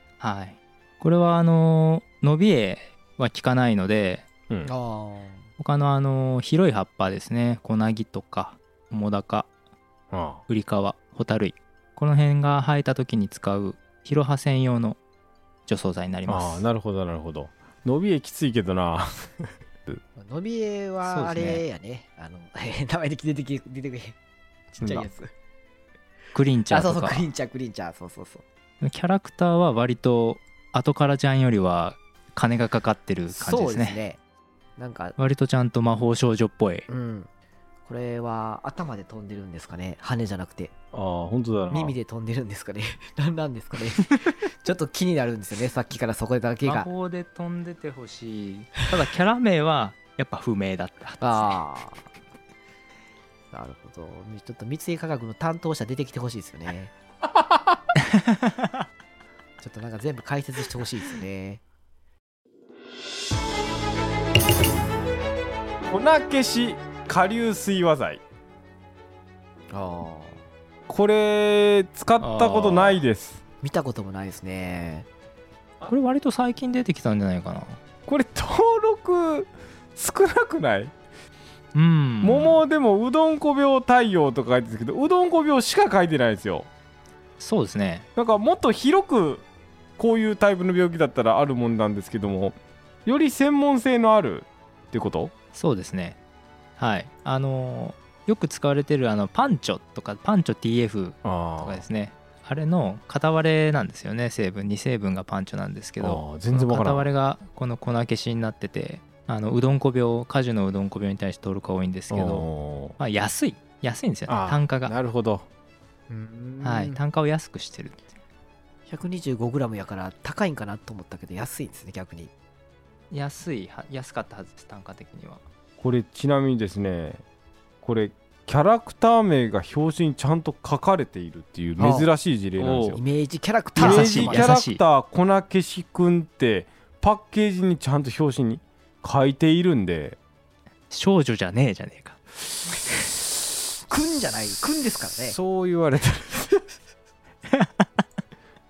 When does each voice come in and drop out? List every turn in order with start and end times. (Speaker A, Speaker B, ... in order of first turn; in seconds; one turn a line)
Speaker A: 0.2-4.3
Speaker B: 4.7-5.4
Speaker A: 5.6-9.5
Speaker C: 10.1-10.4
Speaker A: 10.5-15.0
Speaker A: 15.7-16.6
Speaker C: 16.3-20.0
Speaker B: 20.2-24.2
Speaker A: 21.0-21.6
Speaker B: 24.7-25.3
Speaker A: 26.3-27.3
Speaker B: 26.7-28.4
Speaker A: 28.8-34.0
Speaker B: 33.3-34.2
Speaker B: 34.8-35.2
Speaker A: 35.2-36.9
Speaker B: 36.9-37.3
Speaker B: 37.9-40.7
Speaker C: 40.9-42.0
Speaker B: 41.7-46.9
Speaker A: 46.6-51.6
Speaker B: 51.2-52.1
Speaker B: 53.5-56.9
Speaker A: 58.1-58.7
Speaker B: 59.6-61.6
Speaker C: 65.9-68.2
Speaker B: 69.7-70.4
Speaker C: 70.9-73.4
Speaker A: 72.2-73.0
Speaker B: 73.6-75.1
Speaker A: 75.8-77.8
Speaker C: 78.1-80.9
Speaker A: 81.7-82.6
Speaker C: 82.2-86.7
Speaker A: 87.4-88.1
Speaker C: 88.2-89.5
Speaker C: 90.0-95.3
Speaker A: 95.5-96.2
Speaker A: 96.8-112.5
Speaker C: 101.2-101.8
Speaker C: 106.0-107.1
Speaker C: 112.1-113.0
Speaker A: 113.0-114.9
Speaker C: 114.3-115.5
Speaker B: 116.1-117.0
Speaker A: 116.6-118.0
Speaker B: 118.9-122.3
Speaker A: 123.1-125.4
Speaker C: 125.8-127.2
Speaker C: 127.8-133.0
Speaker B: 131.8-132.1
Speaker A: 132.6-133.0
Speaker B: 132.9-134.5
Speaker A: 133.8-134.8
Speaker C: 133.8-140.2
Speaker A: 140.9-142.2
Speaker B: 143.9-145.4
Speaker C: 145.3-146.7